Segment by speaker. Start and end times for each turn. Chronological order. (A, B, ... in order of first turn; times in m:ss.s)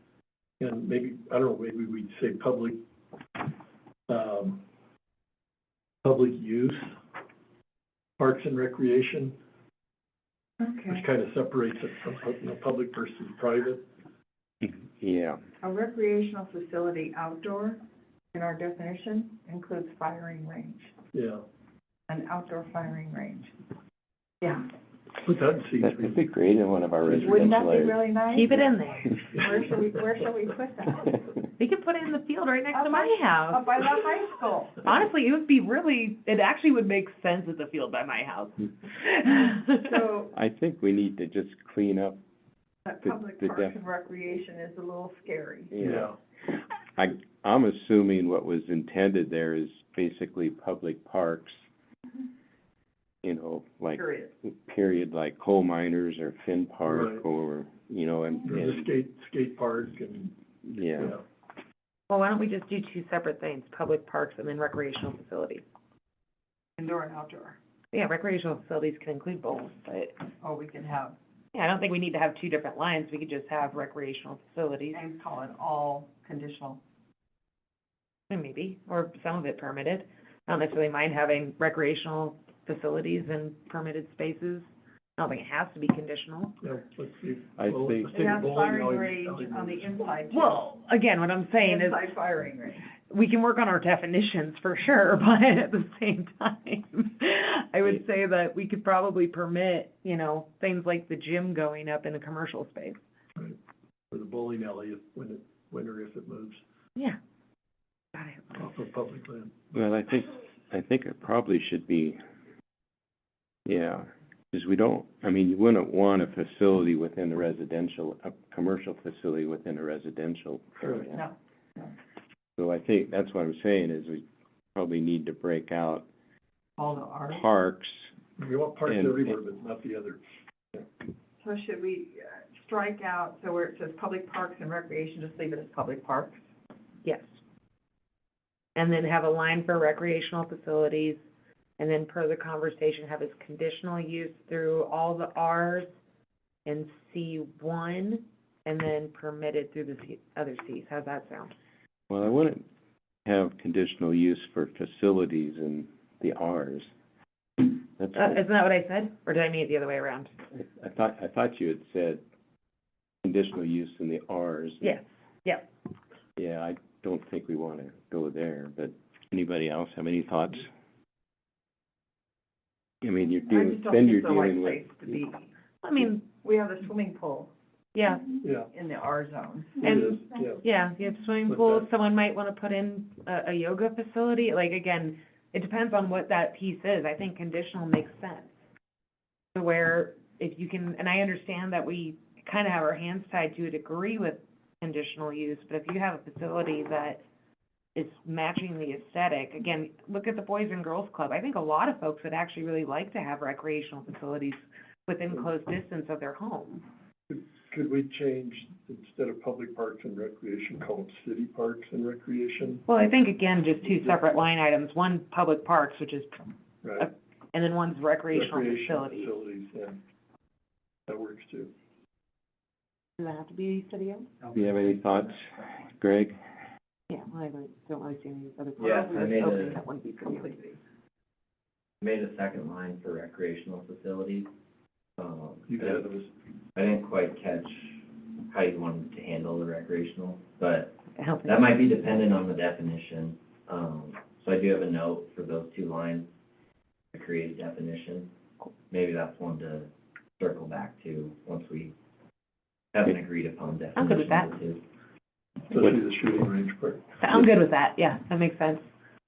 0:00.6-0:02.8 A
0:04.1-0:04.6 A
0:06.0-0:07.0 A
0:08.2-0:09.4 A
0:10.6-0:11.1 B
0:10.9-0:13.8 A
0:14.6-0:15.4 C
0:15.6-0:17.8 B
0:18.3-0:20.9 B
0:21.1-0:21.4 A
0:22.1-0:23.6 B
0:25.2-0:26.2 A
0:25.8-0:28.6 C
0:27.1-0:28.5 B
0:28.3-0:29.2 D
0:29.2-0:31.2 B
0:31.6-0:33.7 D
0:32.7-0:34.9 B
0:34.8-0:39.9 D
0:39.5-0:40.3 B
0:40.3-0:42.2 C
0:42.9-0:45.7 B
0:43.0-0:43.8 C
0:45.7-0:46.1 C
0:45.8-0:46.2 A
0:47.0-0:51.6 C
0:53.2-0:58.9 C
0:54.0-0:54.3 B
0:56.9-0:57.2 A
0:58.4-1:00.3 A
1:00.6-1:01.2 C
1:01.0-1:01.2 A
1:02.1-1:05.6 D
1:06.8-1:07.6 B
1:07.9-1:10.2 D
1:10.4-1:11.2 B
1:11.5-1:15.0 D
1:14.9-1:16.8 B
1:18.3-1:26.6 D
1:26.6-1:29.9 A
1:27.6-1:28.3 C
1:28.1-1:30.7 B
1:30.3-1:32.0 D
1:31.5-1:32.9 B
1:33.1-1:43.0 D
1:44.1-1:46.6 A
1:48.1-1:48.6 D
1:48.6-1:49.6 A
1:49.7-1:52.2 C
1:53.7-2:01.2 C
2:00.8-2:01.1 A
2:01.1-2:01.9 B
2:02.6-2:04.2 C
2:04.8-2:06.1 C
2:06.8-2:07.4 B
2:07.3-2:08.1 C
2:08.4-2:10.2 A
2:08.9-2:09.4 C
2:11.4-2:16.4 B
2:17.0-2:17.3 D
2:18.8-2:21.2 D
2:21.8-2:25.9 D
2:26.6-2:31.5 D
2:32.1-2:32.6 C
2:33.3-2:36.9 C
2:38.0-2:38.4 C
2:38.2-2:40.3 D
2:40.5-2:42.2 C
2:43.2-2:45.0 C
2:44.8-2:45.7 D
2:46.4-2:50.7 C
2:53.0-2:55.2 C
2:53.5-2:55.5 B
2:55.8-2:56.3 D
2:56.3-2:57.5 B
2:58.0-2:58.3 D
2:58.4-2:58.7 A
2:58.6-3:00.0 B
2:59.8-3:00.6 A
2:59.8-3:08.5 D
3:01.5-3:01.9 A
3:09.6-3:17.2 D
3:18.0-3:26.8 D
3:27.3-3:32.8 A
3:32.9-3:36.5 D
3:33.8-3:34.4 A
3:36.8-3:37.1 A
3:37.0-3:39.3 D
3:38.3-3:40.0 A
3:41.1-3:41.7 A
3:43.2-3:44.3 D
3:44.5-3:46.4 C
3:47.1-3:50.6 D
3:48.8-3:49.8 E
3:49.0-3:50.8 B
3:52.0-3:54.5 E
3:55.2-3:56.1 E
3:55.7-3:56.3 A
3:56.8-4:06.3 E
4:01.2-4:01.7 D
4:07.1-4:08.3 E
4:08.9-4:12.0 E
4:12.9-4:14.8 E
4:14.0-4:14.5 D
4:15.7-4:17.2 A
4:17.2-4:18.8 D